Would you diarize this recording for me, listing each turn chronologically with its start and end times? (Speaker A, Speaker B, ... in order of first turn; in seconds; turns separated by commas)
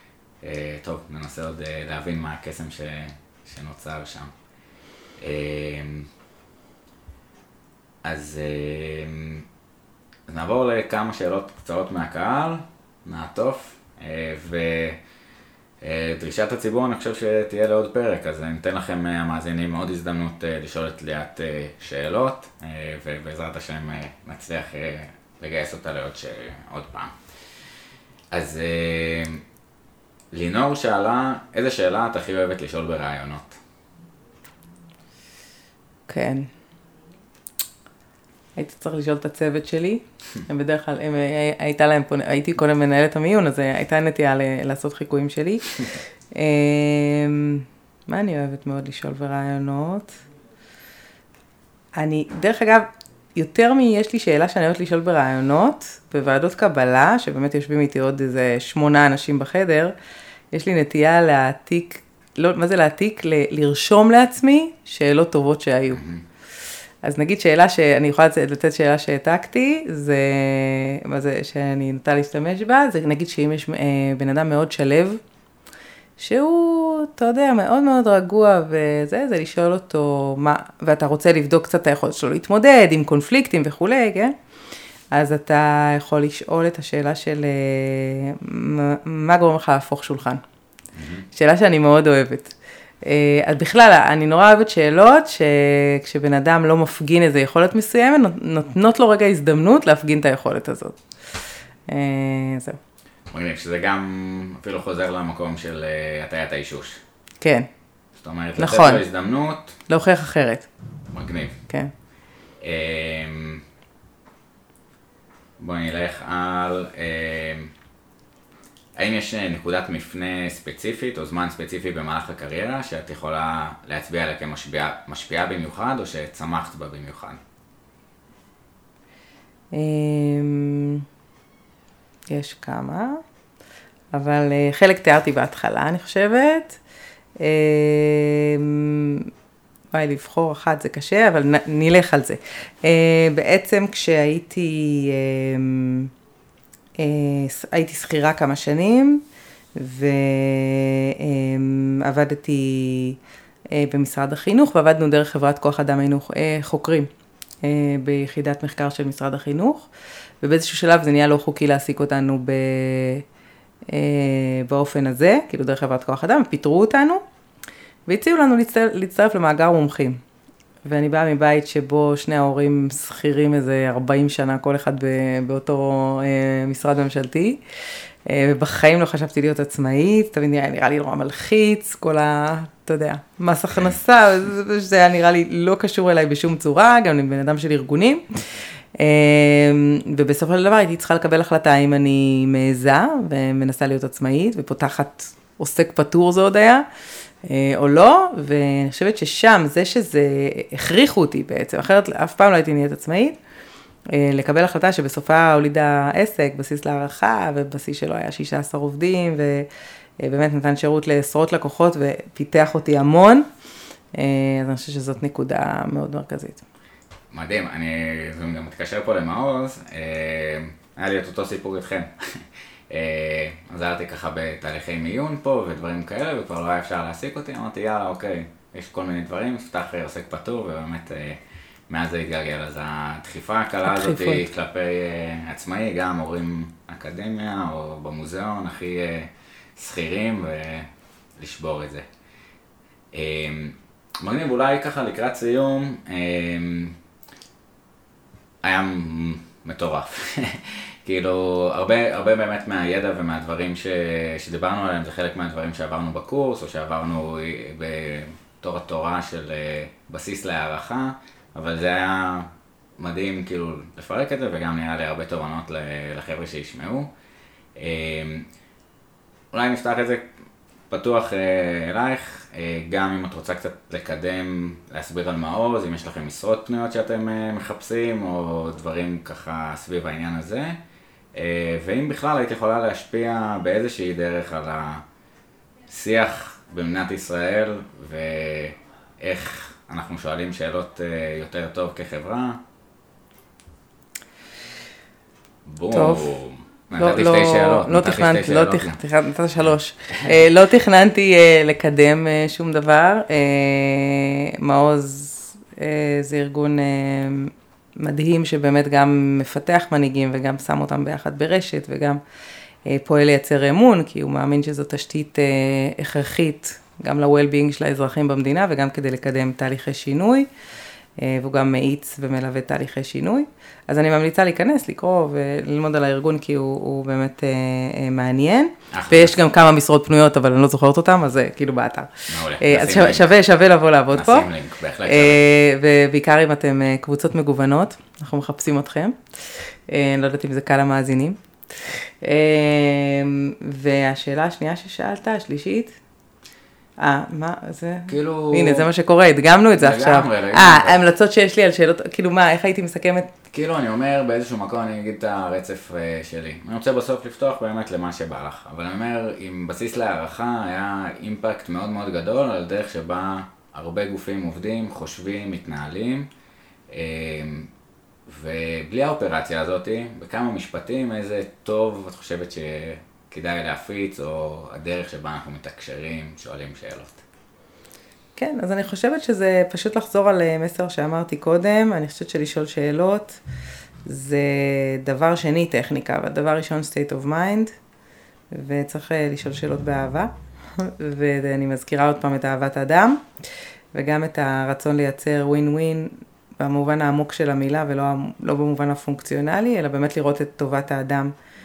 Speaker A: 0.4-4.3, Speaker A: 5.2-6.1, Speaker A: 8.0-9.5, Speaker A: 10.3-15.0, Speaker A: 15.8-27.2, Speaker A: 28.3-29.4, Speaker A: 30.3-33.6, Speaker B: 36.1-36.5, Speaker B: 38.6-50.2, Speaker B: 52.0-59.9, Speaker B: 60.5-66.0, Speaker A: 65.9-66.2, Speaker B: 67.0-75.2, Speaker B: 76.2-84.3, Speaker B: 85.1-90.4, Speaker A: 91.0-91.2, Speaker B: 91.3-101.0, Speaker B: 101.9-102.8, Speaker A: 103.3-107.0, Speaker B: 107.4-107.7, Speaker A: 108.2-109.8, Speaker B: 108.6-109.0, Speaker B: 109.9-110.7, Speaker A: 111.1-111.6, Speaker A: 112.6-113.6, Speaker A: 115.6-117.7, Speaker A: 119.0-127.4, Speaker B: 129.7-131.1, Speaker B: 132.3-133.2, Speaker B: 134.1-136.8, Speaker B: 137.4-139.3, Speaker B: 139.9-146.1, Speaker B: 147.0-149.2, Speaker B: 149.8-153.2, Speaker B: 153.7-157.1, Speaker B: 157.6-159.9, Speaker B: 160.4-163.2, Speaker B: 163.9-167.2, Speaker B: 168.1-170.2, Speaker B: 170.8-177.6, Speaker B: 178.3-188.3, Speaker B: 189.0-196.8, Speaker B: 197.4-203.4, Speaker B: 204.1-209.7, Speaker B: 210.2-213.5, Speaker B: 214.1-216.6, Speaker A: 217.3-242.1, Speaker B: 233.8-234.4, Speaker A: 243.1-247.0, Speaker A: 248.6-267.1, Speaker A: 267.8-268.5, Speaker A: 269.5-270.3, Speaker A: 270.9-280.8, Speaker A: 281.3-285.0, Speaker A: 285.9-292.6, Speaker A: 295.6-299.0, Speaker B: 295.9-296.4, Speaker B: 296.9-312.2, Speaker B: 312.9-320.5, Speaker B: 321.2-334.5, Speaker A: 328.9-329.4, Speaker A: 332.3-333.3, Speaker A: 334.1-335.4, Speaker B: 335.0-346.0, Speaker B: 347.0-353.3, Speaker A: 348.1-348.9, Speaker A: 349.8-351.0, Speaker A: 353.5-366.3, Speaker A: 366.9-367.7, Speaker A: 368.3-377.2, Speaker B: 378.4-383.4, Speaker B: 384.1-387.7, Speaker B: 388.5-393.2, Speaker B: 393.9-401.3